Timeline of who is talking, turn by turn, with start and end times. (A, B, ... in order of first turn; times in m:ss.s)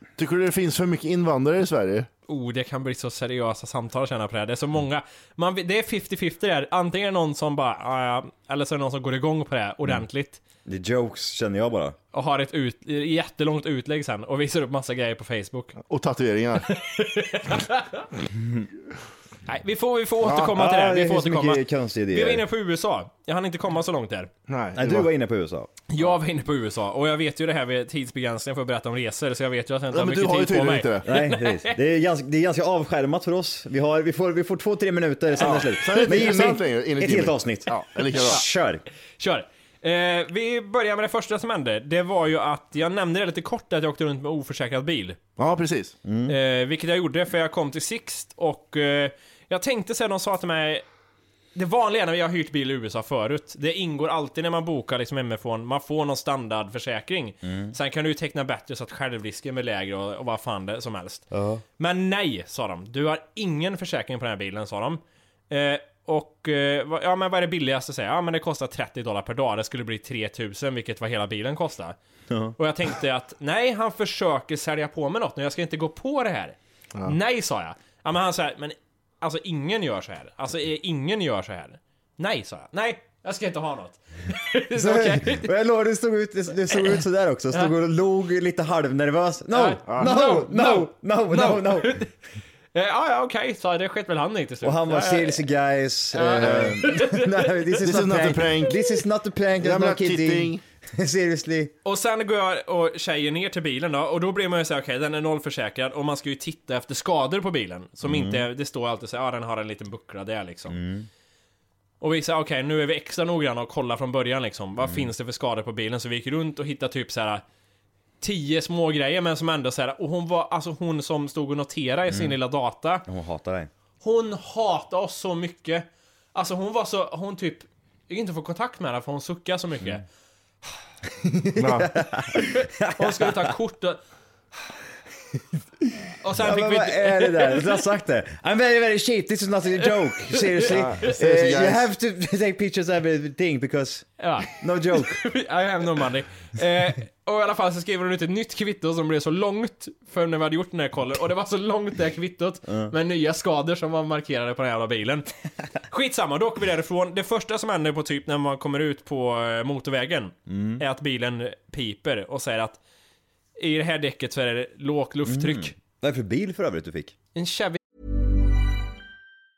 0:00.2-0:02.1 A
0:02.3-0:10.4 B
0:10.6-0:12.0 C
0:12.1-0:15.8 B
0:15.8-0:16.7 A
0:16.6-0:18.1 B
0:19.5-0:24.3 B
0:20.3-0:22.4 C
0:24.5-0:25.1 A
0:24.8-0:25.7 C
0:25.9-0:31.8 B
0:29.9-0:31.1 A
0:31.0-0:38.8 C
0:35.4-0:38.4 A
0:39.2-0:45.2 B
0:45.4-0:46.0 A
0:46.0-0:46.4 C
0:46.3-0:50.8 B
0:51.5-1:12.0 B
0:57.4-0:57.7 C
1:01.3-1:01.6 C
1:12.3-1:12.6 C
1:12.6-1:25.5 B
1:24.7-1:32.0 C
1:26.7-1:27.0 B
1:29.5-1:32.1 B
1:32.7-1:35.4 B
1:34.6-1:41.7 C
1:36.1-1:37.6 B
1:36.4-1:36.8 A
1:37.8-1:38.8 A
1:39.6-1:40.6 A
1:41.8-1:50.8 B
1:48.0-1:48.4 C
1:50.7-1:51.1 C
1:52.0-1:57.4 B
1:54.8-1:55.1 C
1:58.2-2:03.0 B
2:02.1-2:02.4 C
2:03.1-2:03.7 C
2:04.0-2:10.0 B
2:11.2-2:13.5 C
2:11.6-2:11.9 A
2:12.4-2:14.0 B
2:15.9-2:25.2 C
2:16.2-2:17.8 B
2:19.8-2:21.1 B
2:20.7-2:21.8 A
2:24.2-2:35.3 B
2:32.7-2:32.9 C
2:35.9-2:42.8 B
2:40.5-2:40.8 C
2:43.6-2:45.7 B
2:45.2-2:47.1 C
2:47.3-2:47.8 B